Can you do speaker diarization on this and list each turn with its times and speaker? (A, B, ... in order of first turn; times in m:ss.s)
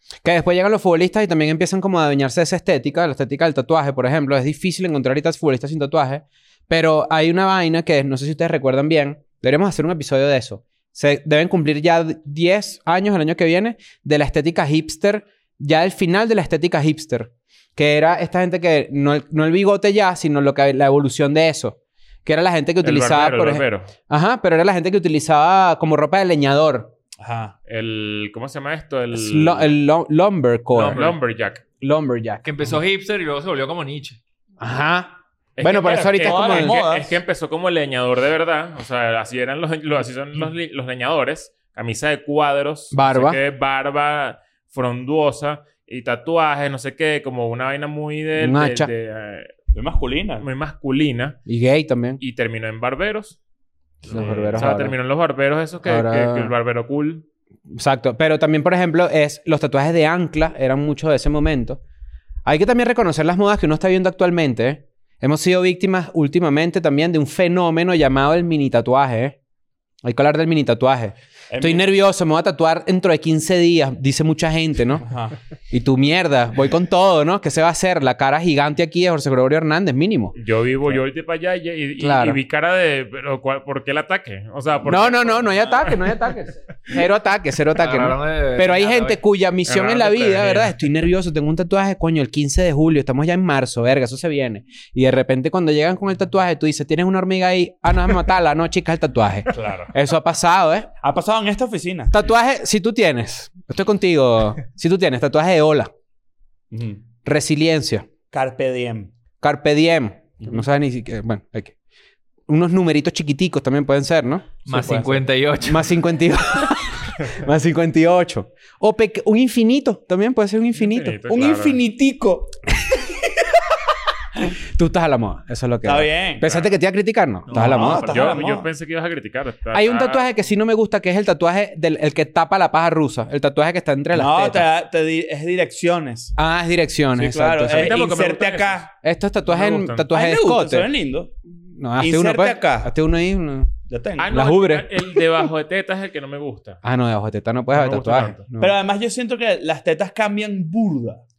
0:00.2-0:26.9 A
0:22.8-0:23.9 B
0:27.2-0:27.5 C
0:27.7-0:29.7 B
0:29.1-0:31.0 A
0:30.7-0:31.2 D
0:30.9-0:31.6 B
0:31.8-0:32.4 A
0:32.4-0:34.2 D
0:34.6-0:36.8 A
0:35.6-0:49.5 B
0:36.2-0:37.2 C
0:42.9-0:43.4 A
0:48.4-0:48.9 A
0:49.7-0:50.4 C
0:50.4-0:51.4 B
0:51.4-0:52.2 A
0:52.2-0:53.4 B
0:54.0-0:54.6 C
0:54.0-0:57.2 B
0:54.1-0:55.0 A
0:55.8-0:56.5 A
0:57.7-1:01.8 A
1:02.4-1:09.4 A
1:10.0-1:15.0 A
1:11.5-1:11.8 C
1:15.0-1:15.4 C
1:15.7-1:20.4 A
1:20.3-1:26.2 B
1:22.0-1:22.4 A
1:24.8-1:40.9 A
1:27.8-1:29.2 D
1:29.7-1:30.7 B
1:39.5-1:39.9 C
1:41.0-1:42.1 C
1:42.1-1:45.9 A
1:46.7-1:47.0 C
1:47.2-1:48.1 A
1:48.3-1:49.1 C
1:49.4-1:51.7 A
1:50.4-1:50.6 C
1:52.5-1:55.1 A
1:54.6-1:55.2 C
1:54.7-1:56.0 D
1:55.6-2:01.2 A
2:00.7-2:01.8 B
2:01.3-2:02.6 C
2:04.7-2:08.1 A
2:05.8-2:06.5 C
2:07.5-2:08.3 D
2:07.5-2:08.7 C
2:07.9-2:10.2 B
2:09.7-2:14.6 A
2:14.1-2:16.4 C
2:16.4-2:18.0 A
2:17.1-2:18.9 C
2:17.7-2:18.9 B
2:19.0-2:20.9 A
2:19.5-2:20.1 B
2:20.1-2:21.3 C
2:21.7-2:23.7 A
2:22.0-2:22.9 C
2:23.9-2:24.3 C
2:24.2-2:26.8 B
2:24.3-2:25.2 A
2:26.8-2:28.8 A
2:27.7-2:28.4 B
2:28.6-2:31.2 C